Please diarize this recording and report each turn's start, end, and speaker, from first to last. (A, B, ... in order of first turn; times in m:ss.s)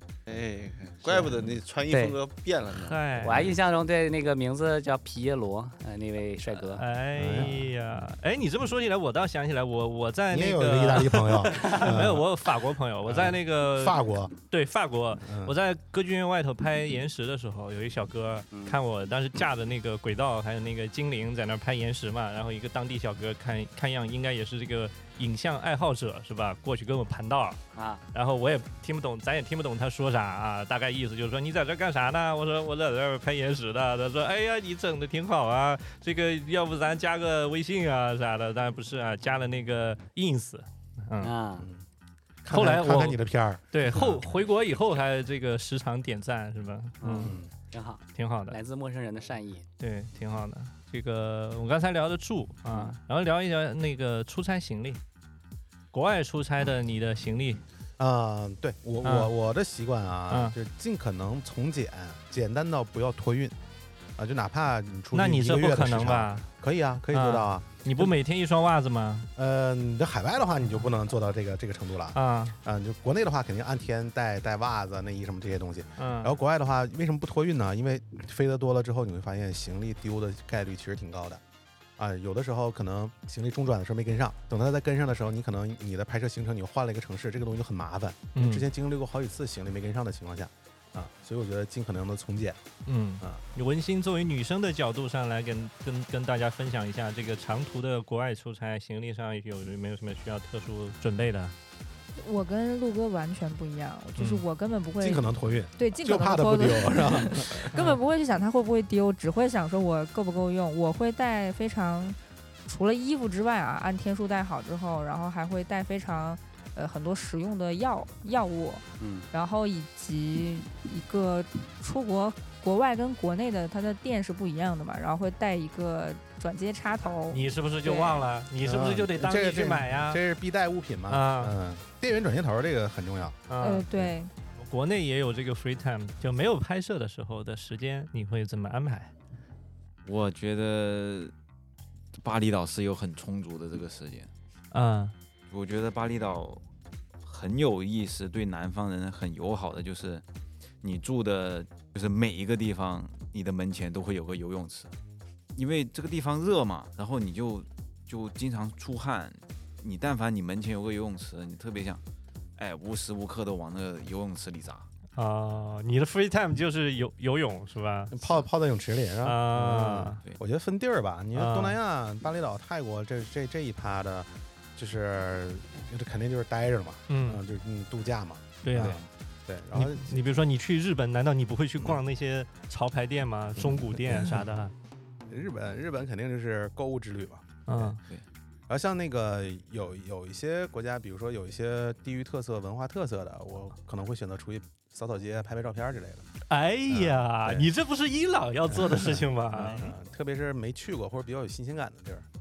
0:00.3-0:03.4 A
0:01.0-0:02.2 B
0:02.8-0:03.6 C
0:03.2-0:06.8 B
0:06.7-0:27.6 C
0:07.2-0:07.7 D
0:10.3-0:12.3 D
0:13.1-0:14.3 D
0:15.2-0:15.6 D
0:18.5-0:18.8 B
0:27.8-0:28.0 B
0:28.1-0:41.3 C
0:41.2-0:41.7 B
0:41.6-0:41.8 D
0:42.4-0:44.3 D
0:42.5-0:47.4 C
0:47.0-0:49.7 B
0:47.2-0:47.5 D
0:48.2-0:48.6 C
0:49.8-0:55.0 C
0:52.7-0:53.0 B
0:55.9-0:57.6 C
0:58.0-1:03.6 D
0:59.0-0:59.3 C
1:00.3-1:00.6 C
1:04.2-1:08.1 D
1:05.1-1:06.5 C
1:07.1-1:09.3 C
1:09.4-1:21.4 D
1:12.1-1:12.6 C
1:16.0-1:16.3 C
1:22.0-1:32.6 D
1:28.4-1:28.7 C
1:32.9-1:41.6 C
1:42.2-2:08.2 E
1:44.2-1:44.4 C
1:45.0-1:47.7 D
1:47.7-1:48.0 C
1:59.0-1:59.3 B
2:07.3-2:10.2 C
2:08.6-2:13.4 D
2:11.1-2:11.5 C
2:13.5-2:13.9 C
2:13.6-2:14.3 E
2:14.6-2:19.1 C
2:20.0-2:21.3 F
2:22.2-2:24.3 F
2:24.7-2:25.2 C
2:25.5-2:26.6 F
2:27.2-2:30.2 F
2:30.8-2:34.9 F
2:35.6-2:42.0 F
2:42.6-2:44.9 F
2:45.2-2:48.2 C
2:48.1-3:00.2 D
2:49.2-2:50.2 C
2:51.4-2:51.8 C
2:57.1-2:57.4 C
2:58.6-2:59.0 C
2:58.8-2:59.1 F
2:59.7-3:04.7 C
3:04.1-3:04.4 D
3:05.3-3:07.9 D
3:07.7-3:08.0 C
3:08.7-3:16.3 D
3:16.5-3:19.9 C
3:16.9-3:17.7 D
3:18.7-3:22.3 D